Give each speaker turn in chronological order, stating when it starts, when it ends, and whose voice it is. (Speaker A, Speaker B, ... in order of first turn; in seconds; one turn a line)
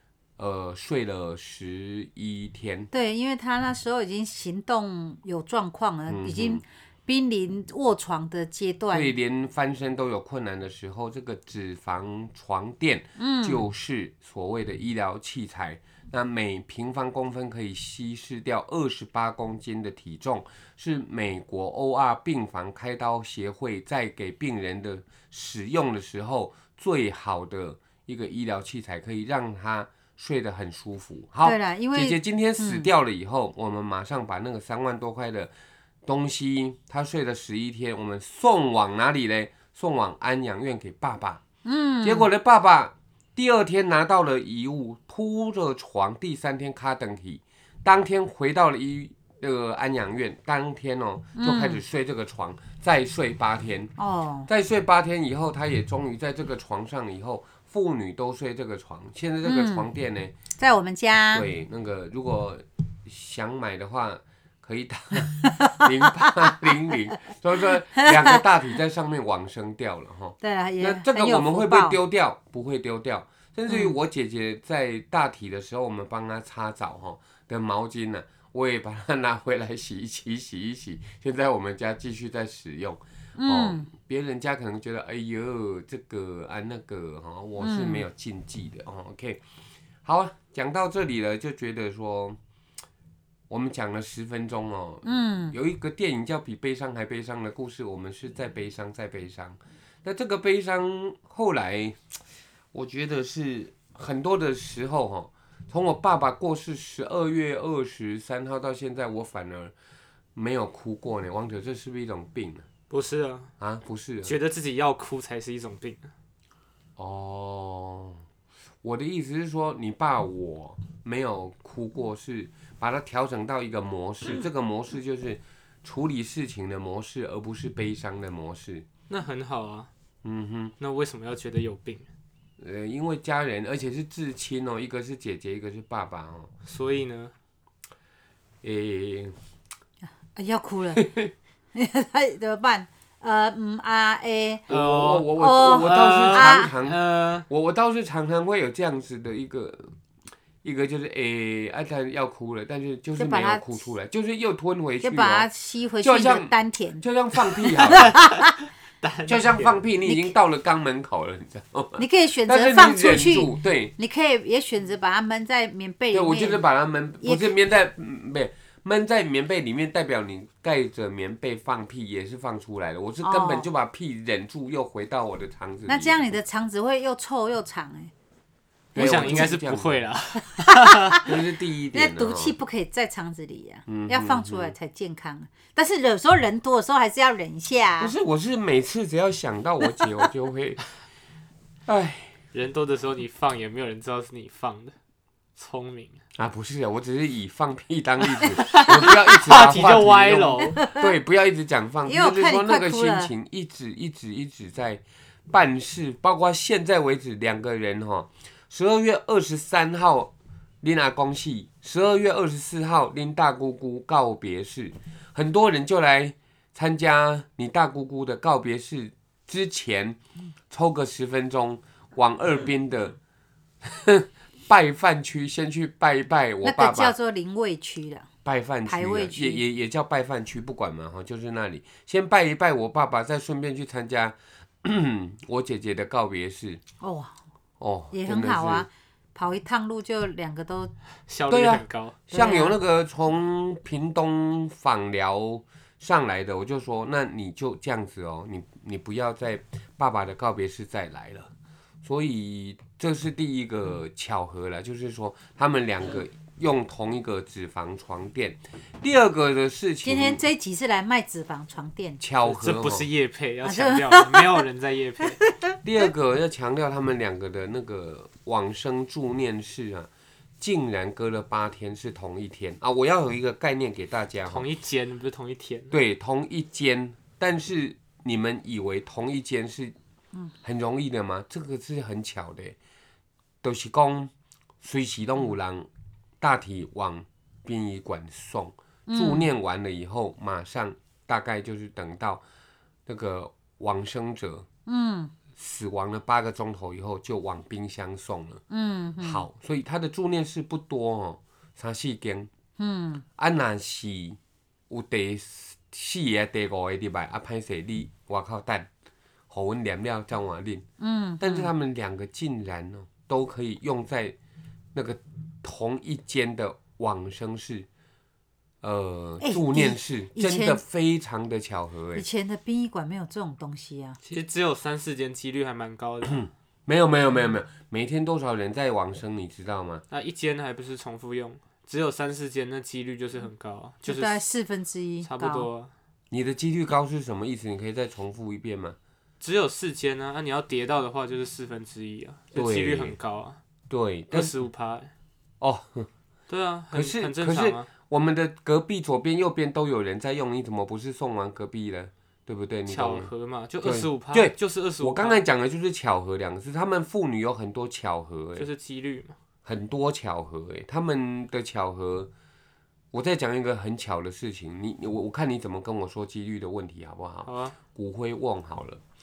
Speaker A: 0.4-2.9
Speaker B: 2.9-9.1
Speaker A: 6.1-6.6
Speaker A: 8.9-35.5
Speaker B: 13.2-13.7
Speaker B: 31.4-32.9
Speaker A: 36.0-41.4
Speaker B: 41.6-42.3
Speaker A: 42.0-53.9
Speaker B: 51.4-51.8
Speaker B: 54.0-54.5
Speaker A: 54.5-60.4
Speaker B: 59.4-59.9
Speaker B: 60.6-61.5
Speaker A: 61.3-89.4
Speaker B: 70.4-72.0
Speaker B: 73.7-74.0
Speaker B: 83.4-83.9
Speaker B: 87.6-88.1
Speaker A: 90.0-92.4
Speaker A: 93.5-102.0
Speaker B: 95.0-95.6
Speaker A: 102.7-109.7
Speaker A: 110.4-112.7
Speaker C: 112.9-113.5
Speaker A: 113.6-114.3
Speaker C: 114.2-116.1
Speaker A: 117.0-118.2
Speaker A: 118.8-128.9
Speaker C: 129.1-129.9
Speaker A: 130.2-130.7
Speaker C: 130.8-132.1
Speaker A: 132.6-136.5
Speaker C: 136.7-137.3
Speaker A: 138.6-139.3
Speaker B: 140.3-141.1
Speaker A: 141.0-141.3
Speaker B: 141.7-144.7
Speaker C: 144.7-147.5
Speaker A: 144.7-149.9
Speaker B: 145.3-146.7
Speaker A: 150.6-155.5
Speaker B: 153.2-153.8
Speaker B: 155.0-157.0
Speaker A: 156.0-158.2
Speaker B: 157.6-158.5
Speaker C: 159.0-159.8
Speaker A: 159.3-163.9
Speaker B: 160.1-160.3
Speaker B: 162.0-166.6
Speaker A: 166.1-176.3
Speaker B: 167.2-167.5
Speaker B: 173.2-173.7
Speaker B: 175.9-178.1
Speaker A: 178.9-180.0
Speaker C: 178.9-181.2
Speaker B: 180.7-181.2
Speaker A: 181.2-182.6
Speaker B: 181.9-188.1
Speaker A: 183.9-184.7
Speaker A: 188.0-190.8
Speaker A: 191.9-192.3
Speaker C: 192.5-194.9
Speaker C: 195.6-196.2
Speaker A: 196.4-220.2
Speaker C: 198.4-200.8
Speaker B: 200.7-201.1
Speaker B: 202.1-203.3
Speaker A: 220.7-223.2
Speaker A: 223.8-227.1
Speaker B: 226.6-228.3
Speaker A: 228.4-236.8
Speaker B: 228.9-229.6
Speaker B: 237.0-237.4
Speaker A: 237.8-238.9
Speaker B: 238.1-240.9
Speaker C: 241.3-242.2
Speaker A: 241.5-251.5
Speaker B: 242.3-242.8
Speaker A: 252.0-260.4
Speaker B: 260.0-262.2
Speaker A: 262.2-263.1
Speaker C: 262.4-265.4
Speaker B: 263.6-264.6
Speaker B: 265.2-265.8
Speaker A: 265.8-270.1
Speaker A: 270.6-274.7
Speaker C: 274.5-275.9
Speaker A: 275.9-279.9
Speaker A: 280.6-282.8
Speaker A: 283.6-284.3
Speaker A: 284.8-285.9
Speaker A: 286.4-292.4
Speaker B: 289.1-289.5
Speaker A: 293.1-294.7
Speaker B: 294.9-295.3
Speaker A: 295.6-298.6
Speaker B: 298.7-299.5
Speaker A: 299.2-302.5
Speaker B: 302.8-303.2
Speaker A: 303.4-304.4
Speaker A: 304.9-308.9
Speaker A: 309.5-310.9
Speaker B: 311.0-311.7
Speaker A: 311.4-314.4
Speaker A: 314.9-317.9
Speaker A: 318.8-322.2
Speaker B: 319.4-320.8
Speaker B: 322.1-324.2
Speaker C: 324.2-326.4
Speaker A: 326.3-330.0
Speaker C: 330.1-334.4
Speaker B: 334.0-335.7
Speaker C: 335.2-335.9
Speaker A: 336.3-339.0
Speaker C: 339.4-343.6
Speaker A: 342.5-343.1
Speaker A: 343.9-344.5
Speaker C: 344.3-345.1
Speaker A: 345.6-346.1
Speaker C: 346.5-347.9
Speaker A: 346.9-353.3
Speaker C: 352.9-355.4
Speaker A: 353.8-358.7
Speaker C: 358.6-359.4
Speaker A: 359.6-362.3
Speaker A: 363.1-369.0
Speaker C: 367.5-367.8